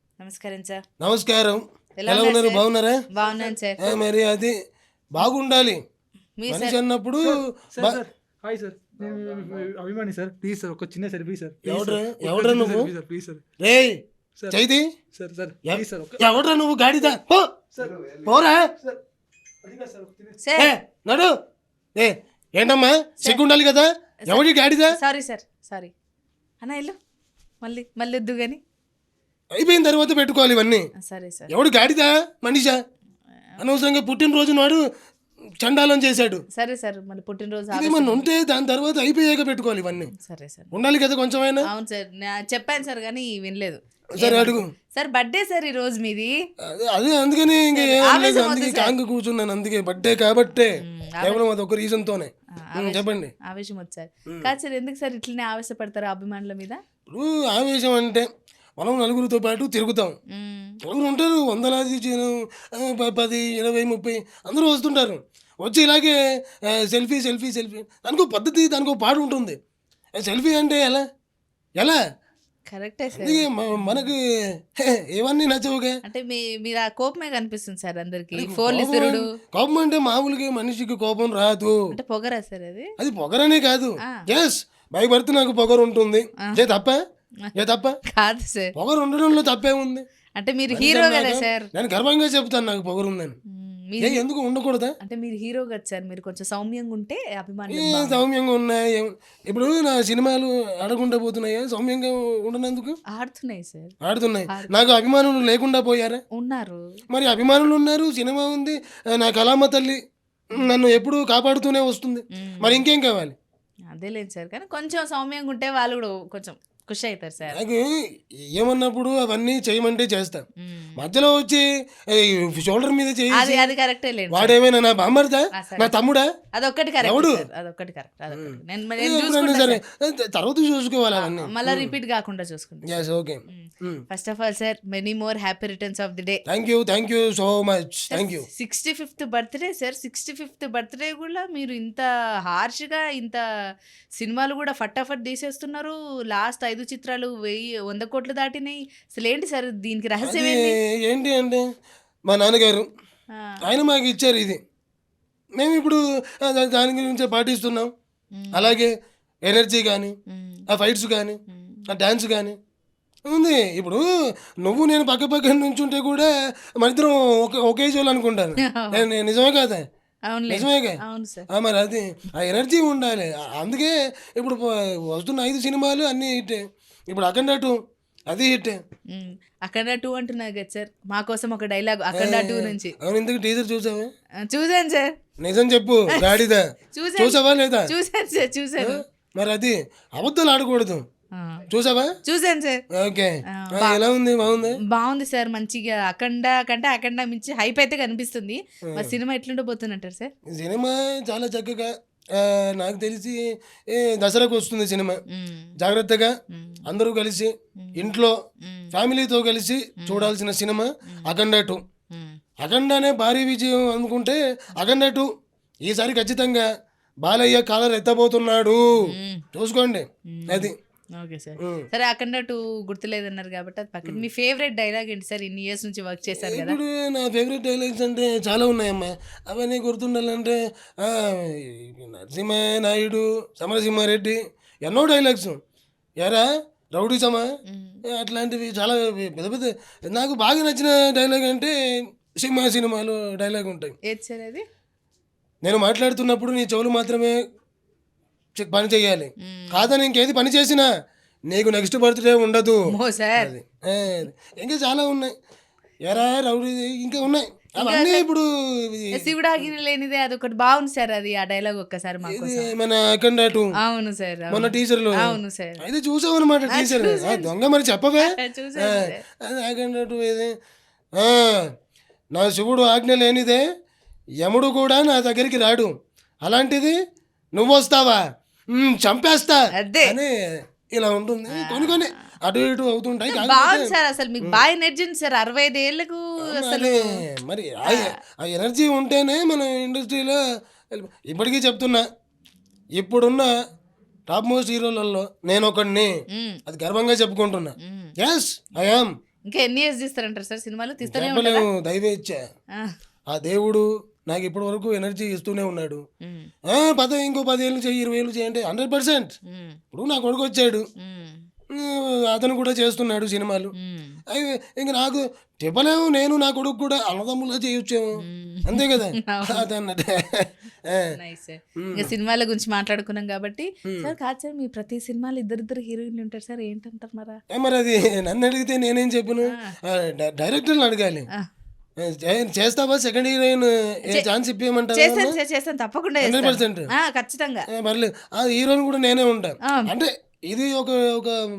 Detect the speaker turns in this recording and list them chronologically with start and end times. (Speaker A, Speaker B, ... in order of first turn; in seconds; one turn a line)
Speaker A: 0.2-0.8
Speaker B: 1.0-3.0
Speaker A: 2.0-4.0
Speaker C: 3.2-3.5
Speaker B: 3.8-4.5
Speaker B: 5.1-5.8
Speaker A: 6.4-6.8
Speaker B: 6.5-8.0
Speaker C: 7.2-13.4
Speaker B: 11.7-12.9
Speaker B: 13.6-14.0
Speaker B: 14.5-14.8
Speaker C: 15.1-16.4
Speaker B: 15.7-17.5
Speaker C: 17.7-19.0
Speaker B: 18.2-18.6
Speaker C: 19.6-20.4
Speaker A: 20.4-20.7
Speaker B: 20.6-21.3
Speaker B: 22.0-25.0
Speaker A: 24.3-25.9
Speaker A: 26.6-27.0
Speaker A: 27.6-28.6
Speaker B: 29.6-30.9
Speaker A: 31.0-31.5
Speaker B: 31.5-32.8
Speaker B: 33.6-34.8
Speaker B: 35.6-36.4
Speaker A: 36.5-38.2
Speaker B: 37.7-40.1
Speaker A: 40.1-40.7
Speaker B: 40.7-41.7
Speaker A: 41.6-46.3
Speaker B: 44.2-44.7
Speaker B: 46.6-53.3
Speaker A: 47.8-48.9
Speaker A: 50.8-51.4
Speaker A: 52.7-56.8
Speaker B: 57.1-60.1
Speaker A: 60.3-60.8
Speaker B: 60.8-66.2
Speaker B: 66.7-69.6
Speaker B: 70.2-71.0
Speaker A: 72.7-74.1
Speaker B: 73.2-74.2
Speaker B: 74.8-76.0
Speaker A: 76.1-79.3
Speaker B: 78.3-81.8
Speaker A: 81.9-82.9
Speaker B: 83.0-87.0
Speaker B: 87.6-88.0
Speaker A: 88.1-88.7
Speaker B: 88.8-90.0
Speaker A: 90.4-91.7
Speaker B: 90.7-93.3
Speaker A: 93.5-94.2
Speaker B: 94.0-95.0
Speaker A: 95.0-98.2
Speaker B: 97.7-103.0
Speaker A: 103.1-104.0
Speaker B: 104.0-106.2
Speaker A: 104.5-104.8
Speaker A: 106.3-106.8
Speaker B: 107.1-110.0
Speaker B: 110.5-113.3
Speaker A: 112.3-112.8
Speaker A: 113.9-117.6
Speaker B: 117.5-117.9
Speaker B: 118.5-120.5
Speaker A: 120.6-121.0
Speaker B: 121.0-123.7
Speaker A: 123.3-124.5
Speaker B: 124.3-126.3
Speaker A: 125.5-125.9
Speaker A: 126.5-129.8
Speaker B: 127.0-127.5
Speaker B: 128.3-131.9
Speaker A: 131.2-136.4
Speaker B: 132.9-134.0
Speaker B: 136.5-138.5
Speaker A: 138.1-143.4
Speaker A: 144.2-150.8
Speaker B: 150.2-151.7
Speaker B: 152.3-152.9
Speaker B: 153.6-154.6
Speaker B: 155.6-157.9
Speaker A: 158.4-158.7
Speaker B: 158.5-158.9
Speaker B: 159.5-160.1
Speaker A: 160.3-160.7
Speaker B: 160.7-162.6
Speaker A: 161.5-161.9
Speaker B: 163.3-164.1
Speaker B: 164.6-169.8
Speaker A: 168.6-169.1
Speaker A: 170.3-171.5
Speaker B: 170.5-171.0
Speaker B: 171.5-177.8
Speaker B: 178.3-178.8
Speaker A: 179.1-182.9
Speaker B: 182.2-184.1
Speaker A: 184.4-185.1
Speaker B: 185.4-186.7
Speaker A: 186.9-189.0
Speaker B: 187.2-187.9
Speaker B: 188.8-191.0
Speaker A: 191.3-191.6
Speaker B: 191.7-192.1
Speaker A: 192.2-192.8
Speaker B: 192.9-194.8
Speaker A: 193.5-194.0
Speaker A: 194.9-200.3
Speaker B: 198.9-199.2
Speaker B: 200.5-205.2
Speaker A: 205.3-205.7
Speaker B: 205.8-206.3
Speaker A: 206.5-206.8
Speaker B: 206.9-208.3
Speaker A: 207.8-208.1
Speaker A: 208.6-208.9
Speaker B: 208.9-211.8
Speaker A: 210.0-210.3
Speaker B: 212.6-215.3
Speaker B: 215.8-216.7
Speaker B: 217.2-220.8
Speaker A: 219.1-219.5
Speaker A: 220.3-226.8
Speaker B: 221.6-221.9
Speaker B: 226.4-235.6
Speaker B: 236.2-237.5
Speaker A: 237.7-238.0
Speaker B: 238.1-241.7
Speaker B: 242.4-244.0
Speaker A: 244.1-244.6
Speaker B: 245.6-247.4
Speaker B: 248.6-250.9
Speaker A: 249.4-249.9
Speaker B: 251.5-252.8
Speaker A: 252.9-253.5
Speaker B: 253.4-255.3
Speaker B: 256.1-259.4
Speaker A: 257.8-258.2
Speaker A: 259.2-262.7
Speaker B: 262.3-263.7
Speaker A: 263.8-265.8
Speaker B: 264.5-270.5
Speaker A: 266.7-267.5
Speaker A: 268.2-269.2
Speaker B: 271.2-271.7
Speaker B: 272.3-273.6
Speaker B: 274.4-275.9
Speaker B: 276.4-276.9
Speaker B: 277.6-284.6
Speaker A: 279.8-280.2
Speaker A: 281.5-282.1
Speaker A: 283.3-287.2
Speaker B: 286.5-292.1
Speaker A: 287.9-288.2
Speaker B: 293.0-293.5
Speaker B: 294.3-296.1
Speaker A: 296.3-296.6
Speaker B: 296.7-299.1
Speaker A: 297.8-298.1
Speaker A: 299.5-301.7
Speaker B: 301.0-302.4
Speaker B: 303.3-306.0
Speaker A: 306.2-306.5
Speaker B: 306.7-309.4
Speaker A: 309.5-309.8
Speaker B: 309.9-310.9
Speaker A: 311.0-311.4
Speaker B: 311.7-313.7
Speaker A: 313.8-314.2
Speaker B: 314.3-318.1
Speaker A: 318.2-319.7
Speaker B: 318.7-321.1
Speaker A: 321.2-327.4
Speaker B: 321.8-322.1
Speaker B: 323.9-324.1
Speaker B: 327.5-331.3
Speaker A: 329.5-329.8
Speaker B: 332.0-335.4
Speaker A: 334.9-337.7
Speaker B: 336.2-336.9
Speaker B: 337.7-341.4